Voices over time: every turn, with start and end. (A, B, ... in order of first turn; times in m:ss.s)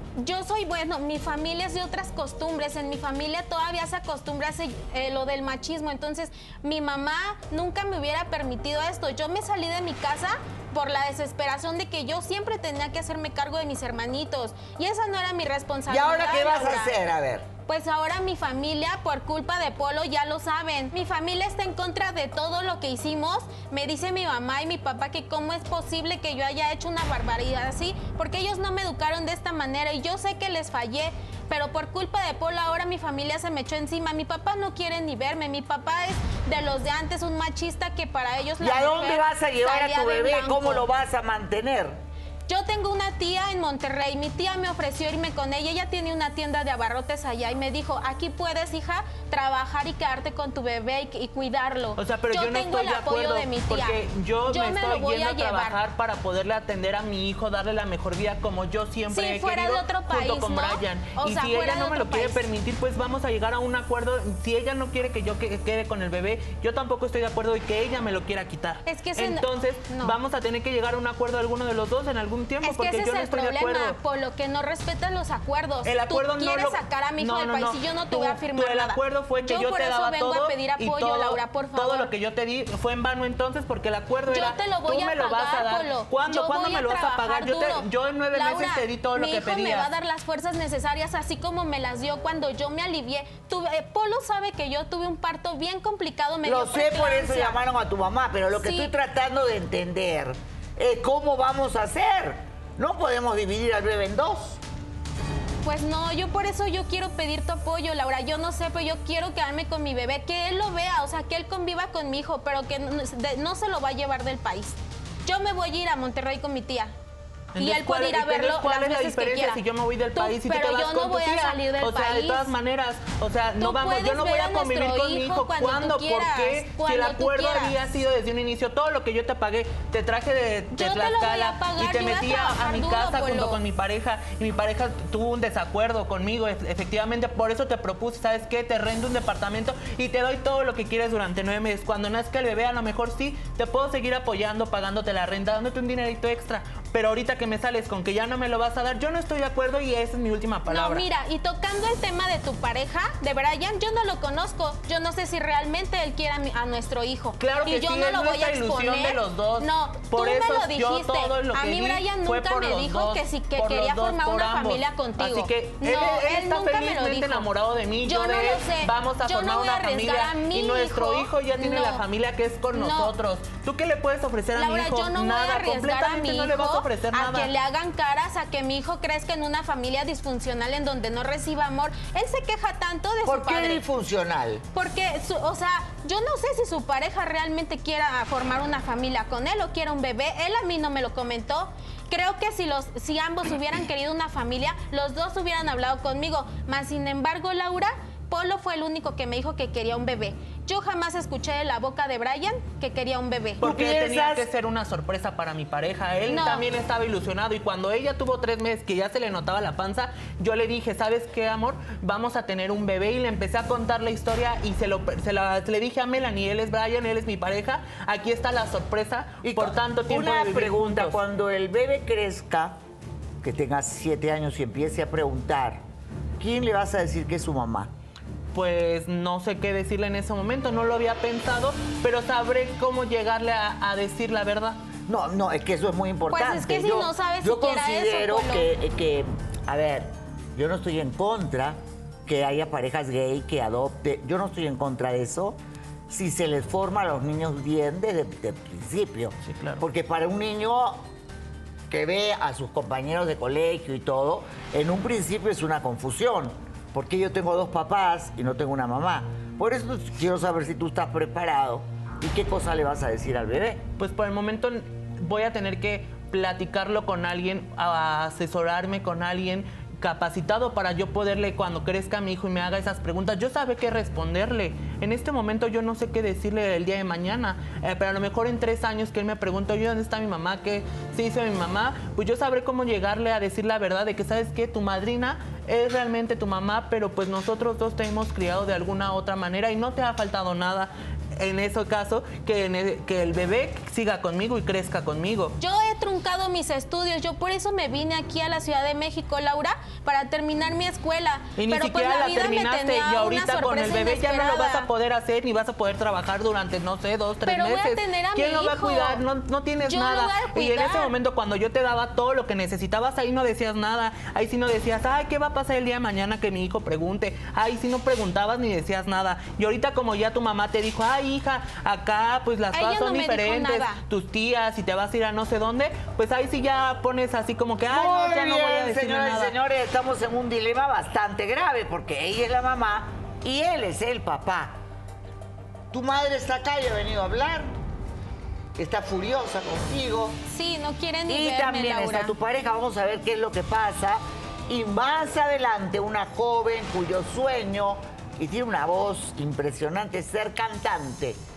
0:00.2-0:17.0 A
0:15.9-0:17.4 B
0:17.7-0:40.8 A
0:38.6-0:42.0 B
0:42.5-0:55.8 A
0:52.0-1:14.0 C
0:59.1-1:02.5 A
1:08.8-1:10.2 A
1:12.6-1:22.1 A
1:15.8-1:29.9 C
1:24.3-1:37.6 A
1:36.4-1:44.6 B
1:38.6-1:38.9 A
1:45.6-1:56.9 A
1:57.5-2:31.0 C
1:57.6-1:59.6 A
2:00.1-2:02.5 A
2:03.6-2:07.8 A
2:10.8-2:13.6 A
2:30.7-2:47.5 A
2:37.4-2:57.5 C
2:48.0-2:52.0 A
2:52.7-2:53.1 A
2:54.6-3:03.8 A
3:03.2-3:04.6 B
3:04.7-3:23.6 A
3:23.6-3:24.4 B
3:23.6-3:41.2 C
3:26.3-3:26.6 A
3:39.4-3:42.8 B
3:43.4-3:45.8 B
3:46.4-3:47.9 B
3:48.5-3:54.8 C
3:55.1-4:05.6 B
3:56.3-3:58.7 A
4:06.1-4:11.0 B
4:09.4-4:09.8 C
4:11.9-4:23.8 B
4:24.0-4:55.6 C
4:55.6-5:04.9 A
5:01.6-5:29.5 C
5:07.4-5:09.2 A
5:09.8-5:11.1 A
5:22.7-5:24.0 A
5:27.9-5:34.7 B
5:35.9-5:37.7 B
5:38.8-5:40.4 B
5:40.5-5:42.3 A
5:41.3-5:51.4 B